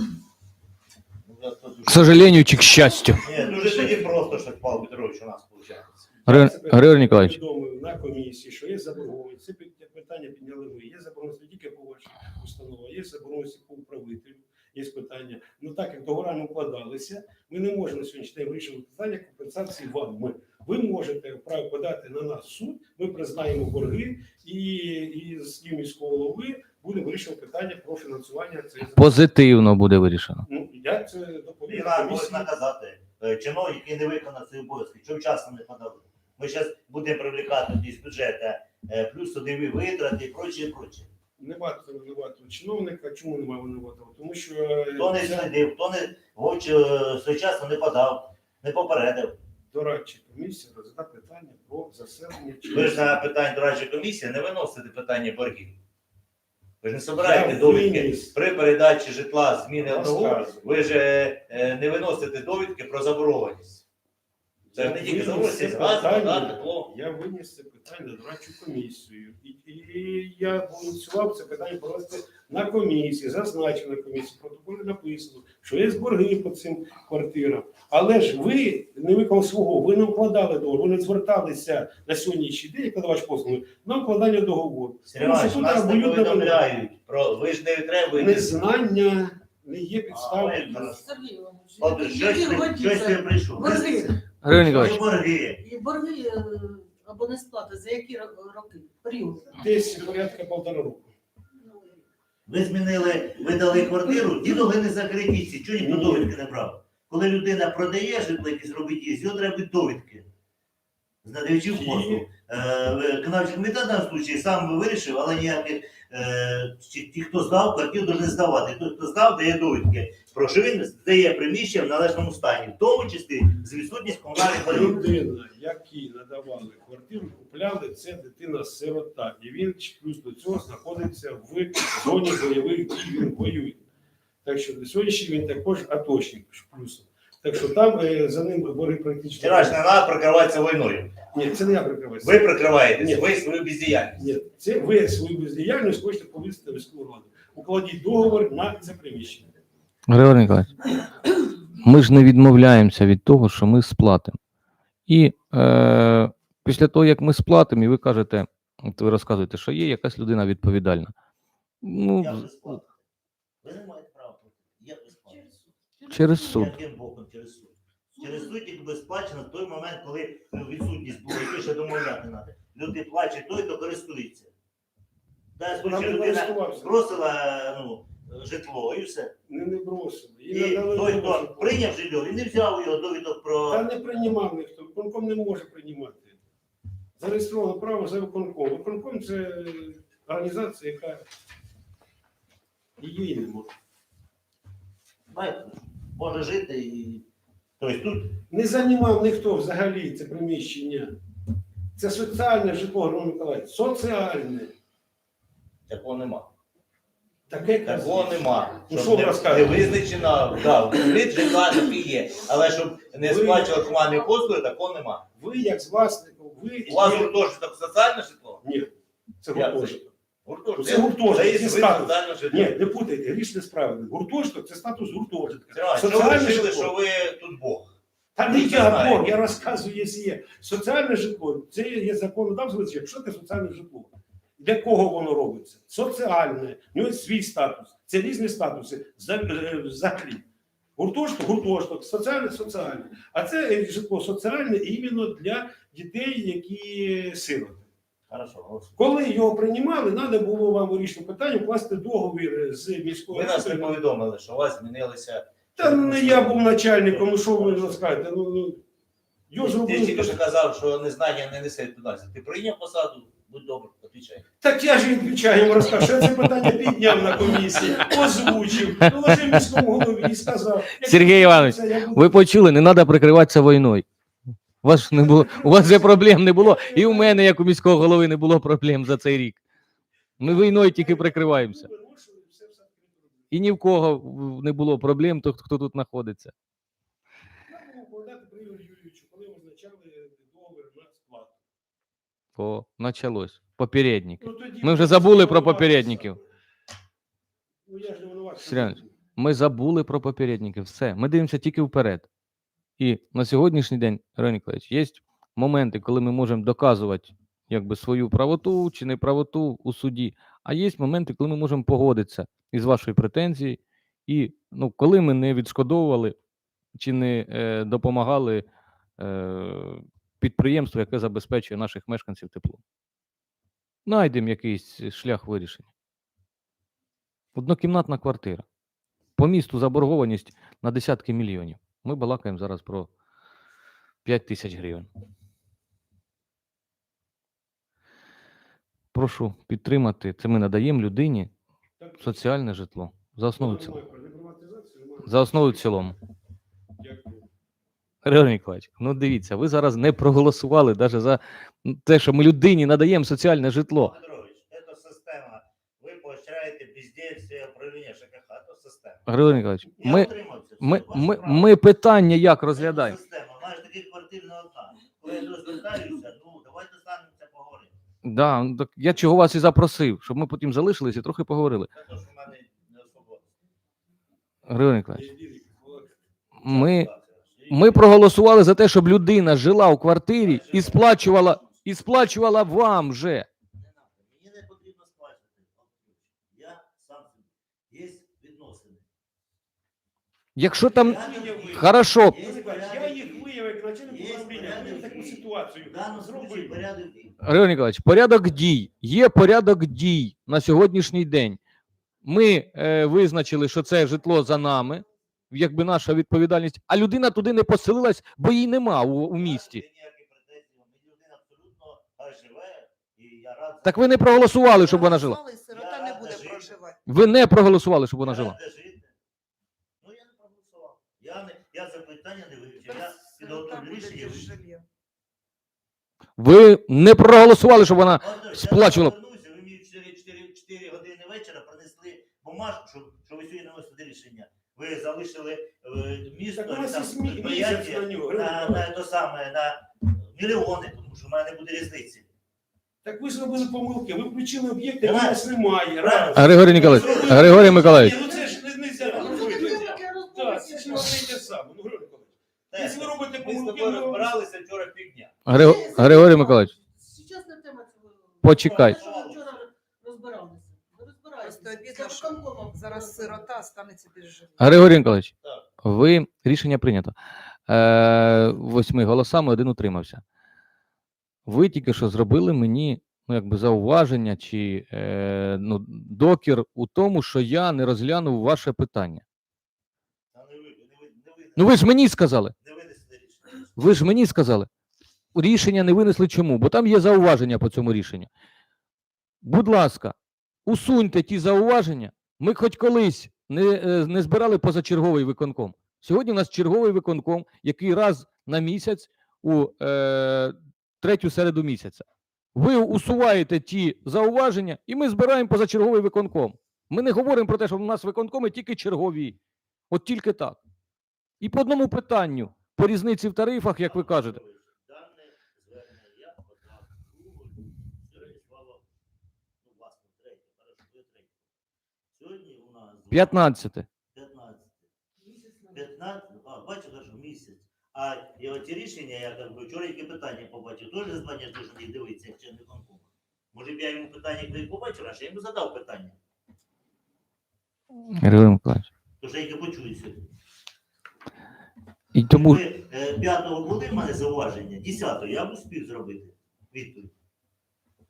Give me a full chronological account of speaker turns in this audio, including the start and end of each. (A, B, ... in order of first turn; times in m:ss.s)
0:01.2-0:06.0 A
0:01.9-0:03.2 B
0:06.2-0:29.2 C
0:06.3-0:07.4 B
0:29.0-0:30.4 B
0:30.4-0:32.5 C
0:31.7-0:41.1 A
0:41.4-0:45.5 C
0:44.9-0:49.4 A
0:49.7-0:53.2 C
0:52.7-0:55.8 A
0:56.8-1:03.8 A
0:57.2-0:58.3 C
0:59.8-1:00.6 C
1:04.7-1:26.8 C
1:04.7-1:06.9 A
1:25.1-1:28.5 A
1:28.1-1:31.0 C
1:30.1-1:31.1 A
1:30.7-1:34.2 D
1:31.8-1:34.0 A
1:33.6-1:34.1 C
1:34.4-1:35.0 B
1:34.5-1:35.6 A
1:35.6-1:39.5 D
1:39.5-1:41.1 C
1:41.6-1:42.0 D
1:42.4-1:50.3 A
1:45.8-1:46.3 C
1:51.2-2:05.0 A
1:51.7-1:52.2 C
2:04.6-2:13.8 C
2:14.4-2:19.8 C
2:19.4-2:21.2 A
2:21.3-2:23.3 C
2:22.2-2:24.2 A
2:24.2-2:29.5 C
2:30.1-2:30.8 B
2:31.8-2:34.4 B
2:35.1-2:41.1 B
2:41.8-2:42.8 B
2:42.2-2:43.0 A
2:43.6-2:45.5 A
2:45.3-2:46.6 D
2:46.1-2:46.8 B
2:46.4-2:54.5 A
2:48.2-2:48.5 D
2:55.6-2:59.3 A
2:55.8-2:57.2 C
2:59.5-3:01.9 C
3:00.5-3:03.8 A
3:03.7-3:06.4 C
3:07.2-3:11.2 C
3:13.0-3:13.7 C
3:15.3-3:17.2 A
3:17.8-3:18.4 A
3:18.5-3:21.1 C
3:22.0-3:24.7 C
3:25.9-3:26.5 A
3:27.5-3:30.0 C
3:27.8-3:35.2 A
3:33.2-3:34.1 C
3:35.4-3:37.4 C
3:36.8-3:38.6 A
3:38.6-3:40.1 C
3:39.5-3:42.8 A
3:40.7-3:46.9 C
3:45.7-3:47.9 A
3:48.3-4:00.4 C
3:48.5-3:49.3 A
4:01.0-4:07.9 C
4:08.3-4:08.9 A
4:09.0-4:14.0 C
4:13.3-4:18.0 A
4:15.8-4:18.8 C
4:19.5-4:20.4 C
4:19.6-4:24.4 A
4:24.6-4:32.5 C
4:31.0-4:34.0 B
4:34.8-4:39.6 B
4:35.1-4:37.4 C
4:40.4-4:43.5 C
4:40.4-4:41.9 B
4:43.5-4:46.5 B
4:47.7-4:51.6 C
4:52.6-4:56.4 B
4:54.4-4:56.4 C
4:57.8-4:59.1 C
4:58.6-5:02.3 B
5:03.0-5:16.4 B
5:16.9-5:18.6 B
5:19.2-5:22.8 B
5:24.0-5:25.9 B
5:27.6-5:28.6 B
5:29.4-5:33.1 B
5:34.2-5:35.1 B
5:39.1-5:41.5 B
5:42.0-5:42.4 C
5:42.2-5:44.0 B
5:43.6-5:46.2 C
5:45.2-5:46.1 B
5:47.0-5:47.5 C
5:48.2-5:54.1 B
5:54.0-6:01.7 A
5:59.3-6:03.2 B
6:02.7-6:07.9 A
6:08.2-6:11.9 B
6:11.9-6:13.4 A
6:14.7-6:15.3 B
6:15.1-6:16.1 C
6:16.6-6:17.1 B
6:16.6-6:18.0 A
6:17.7-6:23.5 B
6:20.4-6:21.8 A
6:23.7-6:29.0 A
6:30.6-6:32.4 B
6:30.9-6:33.5 A
6:30.9-6:36.9 C
6:34.0-6:37.4 A
6:37.4-6:41.6 B
6:42.2-6:49.8 B
6:49.4-6:56.8 A
6:53.8-6:55.4 B
6:54.6-6:57.0 E
6:57.0-6:58.6 B
6:58.2-6:59.1 A
7:00.0-7:04.6 A
7:02.8-7:04.8 E
7:06.4-7:09.1 B
7:07.8-7:22.3 A
7:16.6-7:18.9 C
7:23.0-7:34.3 C
7:25.0-7:25.4 A
7:26.0-7:28.3 A
7:26.4-7:28.1 B
7:28.2-7:31.4 D
7:29.0-7:30.0 A
7:32.7-7:35.4 A
7:35.4-7:36.7 B
7:35.5-7:43.5 D
7:38.4-7:39.0 B
7:38.6-7:39.5 A
7:41.4-7:44.8 E
7:44.6-7:47.1 B
7:47.7-7:50.2 B
7:51.5-7:59.2 B
8:00.3-8:01.8 A
8:01.6-8:02.5 B
8:02.6-8:03.7 A
8:03.8-8:04.7 B
8:05.3-8:08.3 B
8:09.4-8:10.1 B
8:10.6-8:29.4 B
8:29.9-8:30.6 B
8:31.4-8:34.4 B
8:33.8-8:38.8 A
8:39.6-8:41.4 A
8:42.1-8:43.5 A
8:43.1-8:43.8 B
8:44.1-8:44.8 A
8:45.2-8:45.8 D
8:45.7-8:56.2 A
8:58.1-8:58.9 B
8:59.2-9:00.2 A
9:02.1-9:02.6 B
9:02.3-9:07.1 A